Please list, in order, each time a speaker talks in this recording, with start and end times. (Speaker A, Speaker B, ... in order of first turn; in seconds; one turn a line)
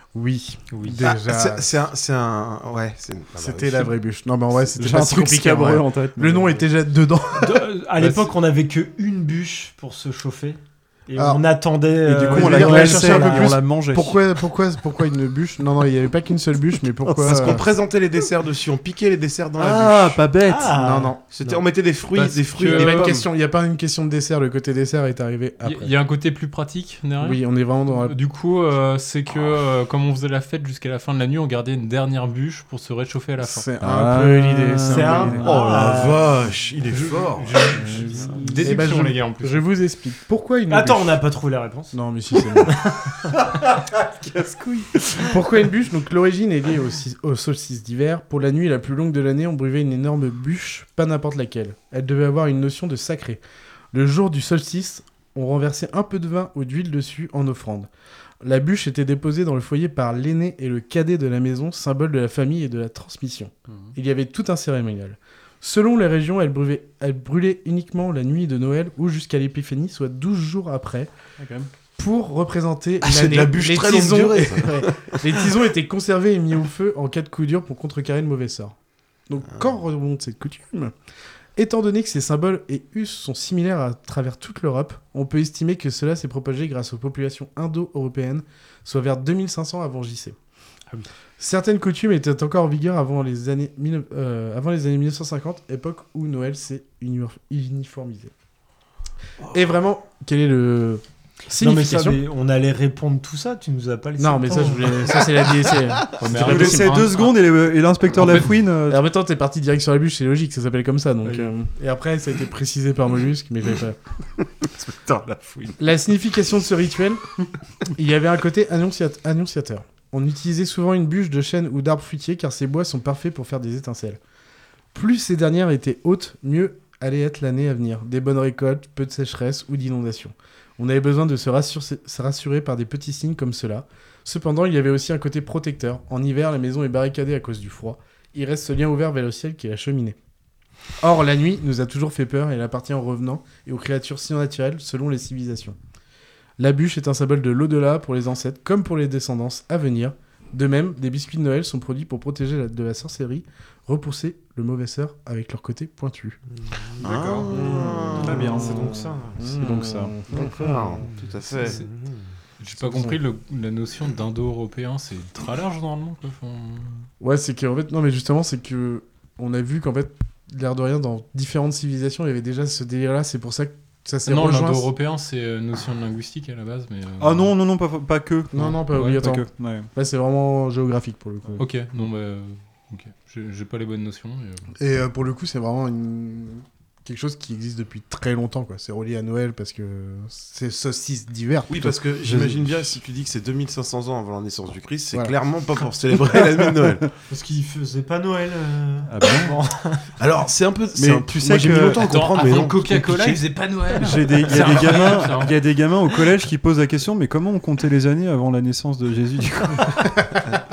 Speaker A: 0.1-1.7
Speaker B: 0.7-1.0
Speaker C: 1.0-3.9
Speaker A: 3.4-7.7
Speaker D: 4.8-6.6
Speaker E: 7.4-13.6
Speaker B: 8.0-8.3
Speaker A: 11.1-11.4
Speaker D: 12.0-14.2
Speaker A: 12.3-17.6
Speaker D: 17.0-17.6
Speaker C: 17.2-20.2
Speaker D: 19.6-20.7
Speaker E: 20.4-21.2
Speaker A: 20.7-21.2
Speaker C: 21.3-23.2
Speaker B: 22.1-23.1
Speaker A: 22.6-25.9
Speaker B: 25.6-33.7
Speaker A: 27.2-28.1
Speaker A: 33.4-35.5
Speaker D: 33.8-35.6
Speaker E: 34.8-36.3
Speaker C: 35.4-38.3
Speaker E: 37.7-38.7
Speaker B: 38.4-39.7
Speaker A: 38.6-41.2
Speaker E: 40.7-42.0
Speaker A: 41.9-42.8
Speaker E: 42.6-43.2
Speaker D: 44.3-44.8
Speaker A: 45.2-57.9
Speaker A: 58.4-71.1
Speaker D: 71.4-71.7
Speaker A: 72.0-78.7
Speaker C: 73.0-75.4
Speaker A: 79.3-80.9
Speaker A: 81.5-90.4
Speaker A: 91.4-98.3
Speaker A: 99.5-102.2
Speaker E: 101.6-105.2
Speaker A: 104.2-107.1
Speaker B: 106.2-107.3
Speaker D: 106.3-109.0
Speaker B: 108.1-108.5
Speaker A: 108.9-114.0
Speaker C: 114.7-115.8
Speaker A: 115.8-117.2
Speaker A: 117.9-124.2
Speaker A: 124.9-140.2
Speaker A: 141.0-145.8
Speaker A: 146.6-156.4
Speaker C: 157.0-158.5
Speaker D: 157.0-160.2
Speaker A: 157.5-161.0
Speaker E: 158.2-159.5
Speaker C: 160.4-162.1
Speaker B: 162.6-167.0
Speaker A: 162.8-163.2
Speaker A: 167.2-174.9
Speaker B: 174.2-177.5
Speaker D: 177.2-179.9
Speaker A: 178.5-181.6
Speaker B: 181.6-184.6
Speaker A: 184.8-191.9
Speaker C: 191.7-197.1
Speaker D: 192.2-192.7
Speaker E: 197.3-200.0
Speaker D: 199.1-199.6
Speaker C: 200.2-203.4
Speaker D: 200.9-202.2
Speaker B: 201.9-203.5
Speaker E: 203.3-205.2
Speaker D: 204.0-210.2
Speaker B: 204.3-205.6